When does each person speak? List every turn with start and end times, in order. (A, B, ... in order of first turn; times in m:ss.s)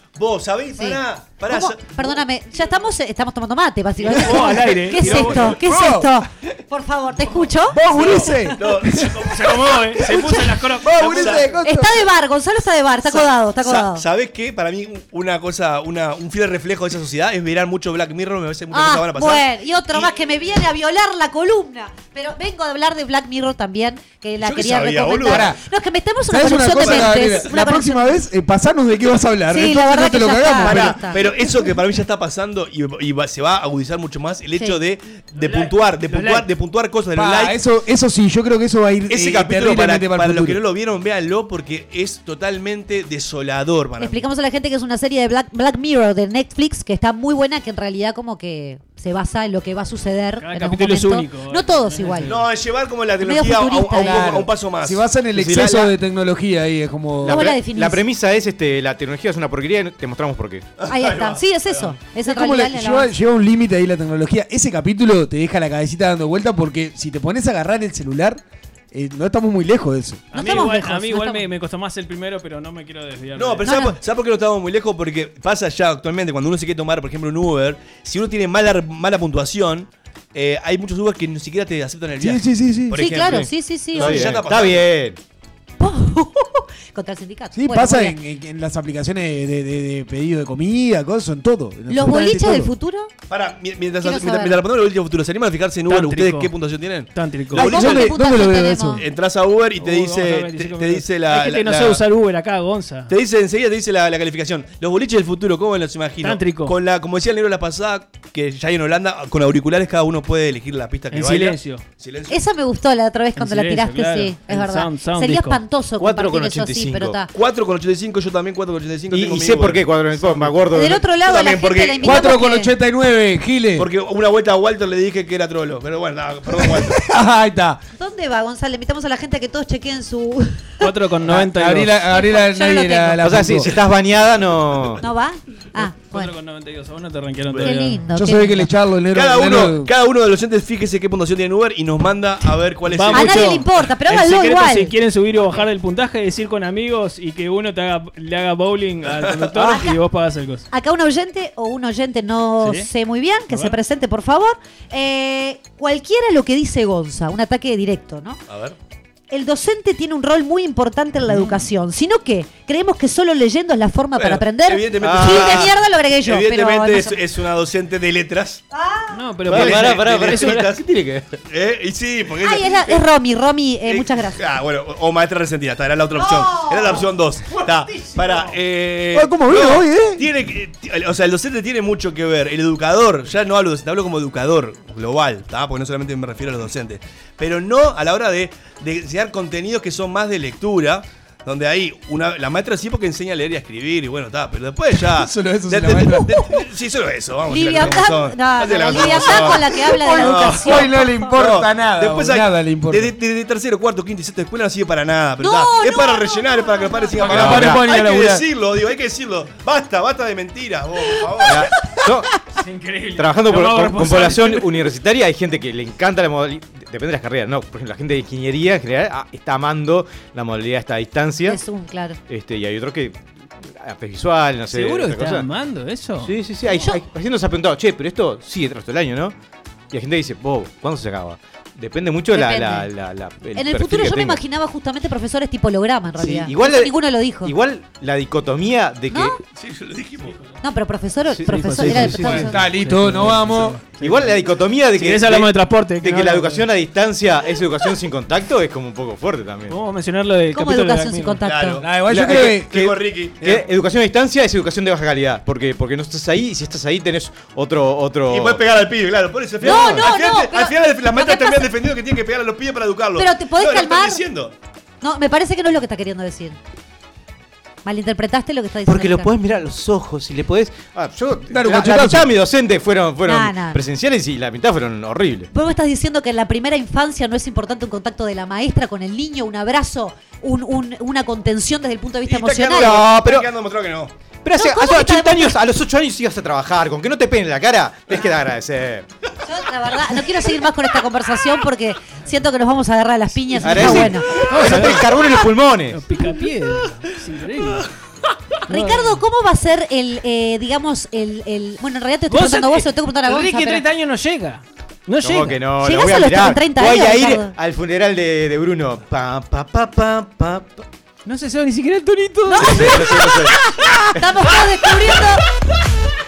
0:00.2-0:02.2 A
0:00.8-0:08.6 B
0:04.0-0:05.5 C
0:05.0-0:06.2 D
0:07.7-0:09.2 D
0:08.0-0:09.5 A
0:09.3-0:11.4 C
0:10.0-0:10.4 A
0:10.8-0:12.0 D
0:11.0-0:11.5 A
0:11.6-0:14.0 B
0:13.1-0:20.1 A
0:18.7-0:28.2 B
0:24.4-0:25.5 A
0:25.2-0:25.6 D
0:26.3-0:31.0 D
0:26.8-0:27.4 A
0:29.5-0:31.3 B
0:30.6-0:37.5 A
0:35.4-0:36.5 C
0:37.1-0:40.6 D
0:39.1-0:44.3 A
0:44.0-0:52.4 B
0:50.4-0:52.5 C
0:52.2-0:55.0 A
0:53.2-0:54.3 B
0:54.0-0:57.5 D
0:55.4-0:55.9 E
0:57.2-1:00.7 E
0:57.2-0:58.0 B
1:00.8-1:01.9 A
1:00.9-1:03.1 B
1:02.2-1:08.4 D
1:08.9-1:10.3 D
1:10.3-1:13.7 C
1:10.3-1:11.4 B
1:13.3-1:24.9 A
1:13.6-1:14.0 B
1:22.2-1:23.0 D
1:22.9-1:24.3 B
1:23.2-1:25.2 E
1:25.8-1:28.2 B
1:27.5-1:32.7 D
1:31.9-1:33.1 B
1:33.3-1:38.1 A
1:34.0-1:34.6 B
1:35.9-1:36.5 C
1:37.1-1:37.7 C
1:37.5-1:39.0 D
1:37.6-1:39.0 B
1:39.0-1:42.0 A
1:39.8-1:43.1 C
1:43.1-1:52.4 A
1:46.2-1:46.7 C
1:51.1-1:51.8 C
1:52.3-1:57.3 B
1:53.4-1:55.6 C
1:56.0-1:57.2 E
1:57.3-2:00.6 A
1:59.1-2:01.0 E
2:00.7-2:02.7 B
2:01.2-2:02.2 A
2:02.0-2:03.9 D
2:03.8-2:07.0 A
2:06.6-2:07.8 D
2:08.0-2:10.8 B
2:10.8-2:11.9 C
2:11.2-2:13.7 D
2:12.1-2:13.4 B
2:13.2-2:15.0 E
2:15.0-2:16.3 B
2:16.0-2:18.0 C
2:17.6-2:18.7 B
2:18.1-2:19.9 D
2:19.1-2:23.6 A
2:22.9-2:30.6 C
2:23.1-2:24.9 B
2:29.1-2:29.5 A
2:29.6-2:30.0 B
2:30.7-2:38.4 B
2:32.6-2:32.9 C
2:38.5-2:38.8 A
2:39.3-2:47.2 B
2:44.2-2:48.6 A
2:45.0-2:45.7 E
2:48.7-2:49.1 B
2:49.1-2:50.7 C
2:49.5-2:51.4 E
2:49.5-2:50.8 A
2:51.5-2:53.0 A
2:52.4-2:54.4 B
2:53.8-3:31.6 A
2:56.2-2:57.1 B
2:58.0-2:58.3 B
2:59.1-3:00.2 D
3:15.0-3:16.3 D
3:16.1-3:16.6 B
3:17.5-3:21.3 B
3:19.9-3:23.1 D
3:25.4-3:27.3 B
3:27.2-3:28.4 D
3:27.3-3:27.8 E
3:31.4-3:32.3 E
3:32.6-3:34.8 C
3:33.2-3:41.6 E
3:41.4-3:42.2 B
3:42.3-3:45.5 E
3:44.7-3:46.3 C
3:46.2-3:49.3 E
3:46.7-3:47.0 B
3:49.9-3:54.4 E
3:52.3-3:52.9 B
3:53.6-3:57.5 B
3:56.2-3:59.4 E
3:59.1-3:59.4 B
3:59.6-4:00.4 A
4:00.6-4:02.6 B
4:01.3-4:02.5 E
4:01.5-4:04.4 C
4:01.8-4:03.8 D
4:04.0-4:09.8 E
4:04.9-4:06.7 C
4:09.7-4:11.4 C
4:10.5-4:11.8 B
4:11.4-4:13.6 A
4:11.8-4:12.9 D
4:12.1-4:18.6 E
4:18.3-4:24.5 A
4:19.6-4:21.7 B
4:23.2-4:24.2 B
4:25.0-4:26.6 B
4:27.8-4:29.3 B
4:28.8-4:35.5 E
4:31.5-4:32.3 D
4:33.2-4:33.8 B
4:35.5-4:43.1 B
4:42.2-4:44.1 A
4:42.8-4:43.5 E
4:44.4-4:49.0 E
4:44.5-4:45.6 B
4:49.4-4:54.4 B
4:53.6-4:56.0 E
4:53.7-4:55.1 C
4:55.9-4:57.9 C
4:58.7-4:59.2 C
4:58.7-5:03.8 B
5:02.3-5:05.6 C
5:05.2-5:10.8 E
5:05.8-5:07.5 B
5:11.2-5:13.5 C
5:12.5-5:15.4 B
5:12.6-5:13.6 E
5:14.2-5:14.4 E